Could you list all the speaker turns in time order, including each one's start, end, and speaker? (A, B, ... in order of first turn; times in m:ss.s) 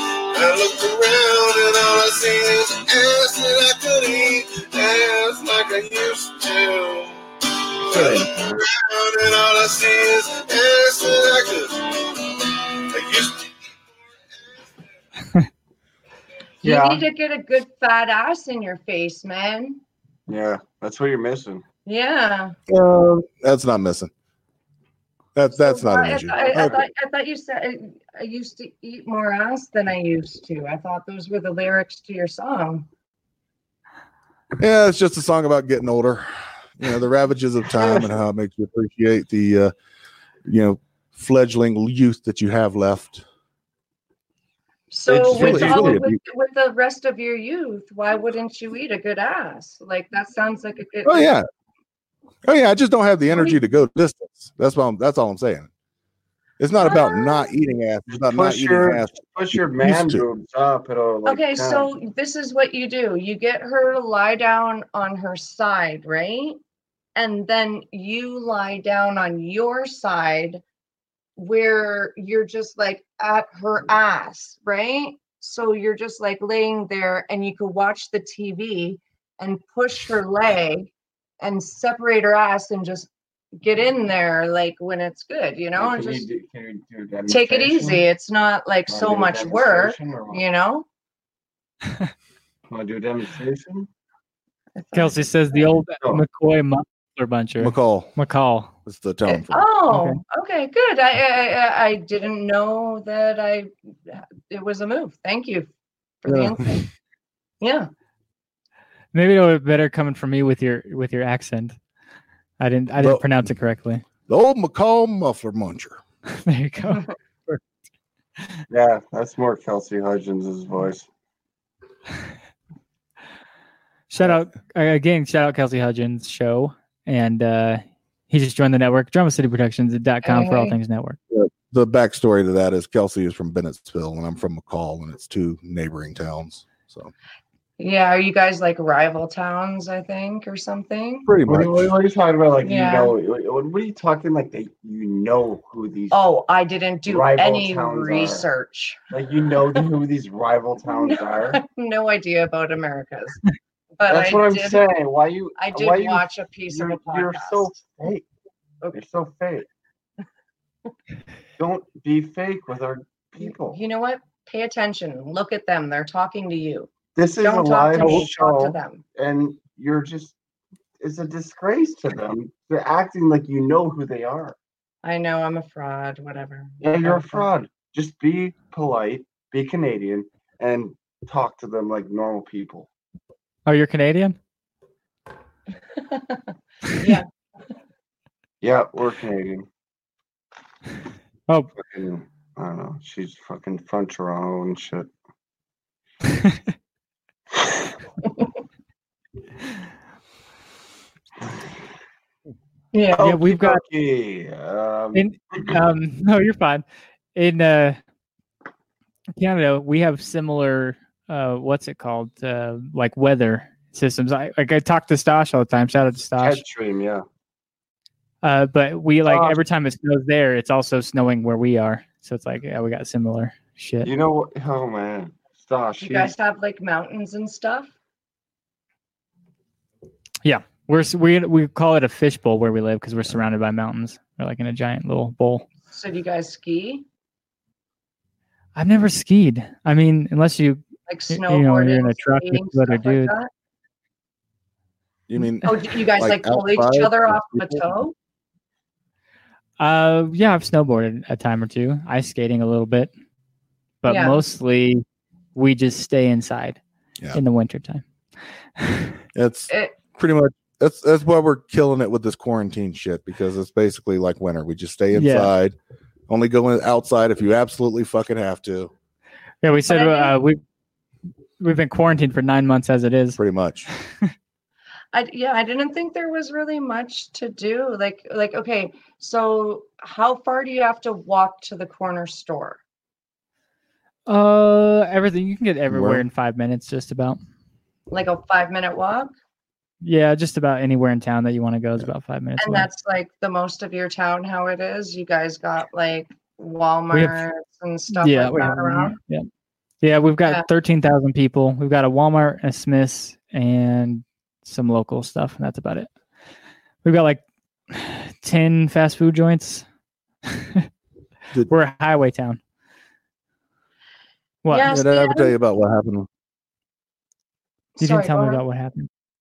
0:00.3-0:07.2 A
0:07.8-0:14.7 A
0:07.9-0:08.6 B
0:16.6-0:19.8 C
0:16.6-0:17.0 B
0:20.3-0:21.6 B
0:21.8-0:22.6 C
0:22.7-0:24.1 D
0:25.3-0:26.8 D
0:25.5-0:32.9 C
0:26.5-0:26.8 B
0:34.6-0:39.7 D
0:40.4-0:43.2 D
0:44.9-0:51.3 C
0:45.1-0:46.0 B
0:45.1-0:46.2 D
0:51.0-0:51.4 D
0:52.4-0:55.7 D
0:53.3-0:53.6 C
0:56.6-1:00.2 D
0:56.8-0:57.5 C
0:58.1-1:01.9 B
1:01.2-1:06.6 C
1:07.1-1:10.6 C
1:11.4-1:20.9 C
1:21.4-1:26.3 C
1:25.8-1:28.0 B
1:27.3-1:30.8 C
1:28.9-1:30.4 B
1:32.7-1:33.9 B
1:34.8-1:35.6 C
1:34.9-1:38.7 E
1:37.6-1:38.1 D
1:38.8-1:39.6 D
1:39.3-1:45.7 C
1:39.9-1:40.2 E
1:46.2-1:46.8 C
1:46.2-1:46.6 D
1:47.6-1:47.9 C
1:49.1-1:51.8 E
1:52.6-1:54.0 E
1:53.0-1:53.3 D
1:54.3-1:56.0 D
1:56.3-1:57.6 E
1:58.7-2:01.1 B
2:04.1-2:11.2 E
2:10.2-2:10.8 C
2:11.3-2:17.1 D
2:17.8-2:21.3 C
2:21.2-2:21.9 D
2:21.4-2:26.2 B
2:22.6-2:23.1 C
2:26.1-2:29.0 C
2:27.1-2:28.4 B
2:29.1-2:31.6 B
2:30.8-2:33.4 C
2:34.0-2:34.8 C
2:34.1-2:38.2 B
2:35.6-2:37.7 C
2:38.9-2:39.6 B
2:41.6-2:43.8 B
2:43.4-2:49.0 C
2:47.2-2:50.3 B
2:51.0-2:54.6 B
2:55.0-2:57.5 C
2:56.8-3:02.9 B
3:03.6-3:04.4 E
3:05.9-3:07.3 C
3:08.6-3:09.7 B
3:11.8-3:15.1 B
3:22.9-3:23.2 C
3:23.1-3:25.7 B
3:23.2-3:23.8 E
3:25.1-3:26.8 E
3:27.3-3:28.0 E
3:29.4-3:36.6 E
3:36.4-3:37.2 B
3:38.4-3:44.1 E
3:39.2-3:39.6 B
3:44.0-3:46.3 B
3:46.0-3:47.9 C
3:50.4-3:55.6 E
3:55.9-3:57.0 C
3:58.8-4:03.3 E
4:01.1-4:03.5 C
4:05.3-4:07.9 D
4:05.6-4:08.1 C
4:09.8-4:13.1 E
4:14.0-4:15.0 E
4:14.1-4:14.4 C
4:15.5-4:16.8 E
4:17.3-4:18.0 E
4:18.8-4:19.1 E
4:19.3-4:25.7 D
4:19.7-4:20.0 C
4:25.1-4:25.5 E
4:26.3-4:28.9 D
4:29.6-4:30.6 E
4:29.9-4:30.3 C
4:31.6-4:33.4 E
4:33.4-4:33.9 D
4:35.1-4:42.8 C
4:44.3-4:47.4 E
4:45.9-4:46.2 D
4:48.1-4:49.3 C
4:50.0-4:52.9 E
4:52.6-4:59.2 C
4:57.1-4:57.4 E
4:58.1-4:59.5 E
5:00.0-5:06.1 E
5:07.0-5:09.8 E
5:10.5-5:10.9 E
5:11.7-5:12.6 E
5:14.6-5:14.9 E
5:14.7-5:15.6 C
5:14.8-5:16.3 D
5:18.0-5:18.6 C
5:18.0-5:19.1 E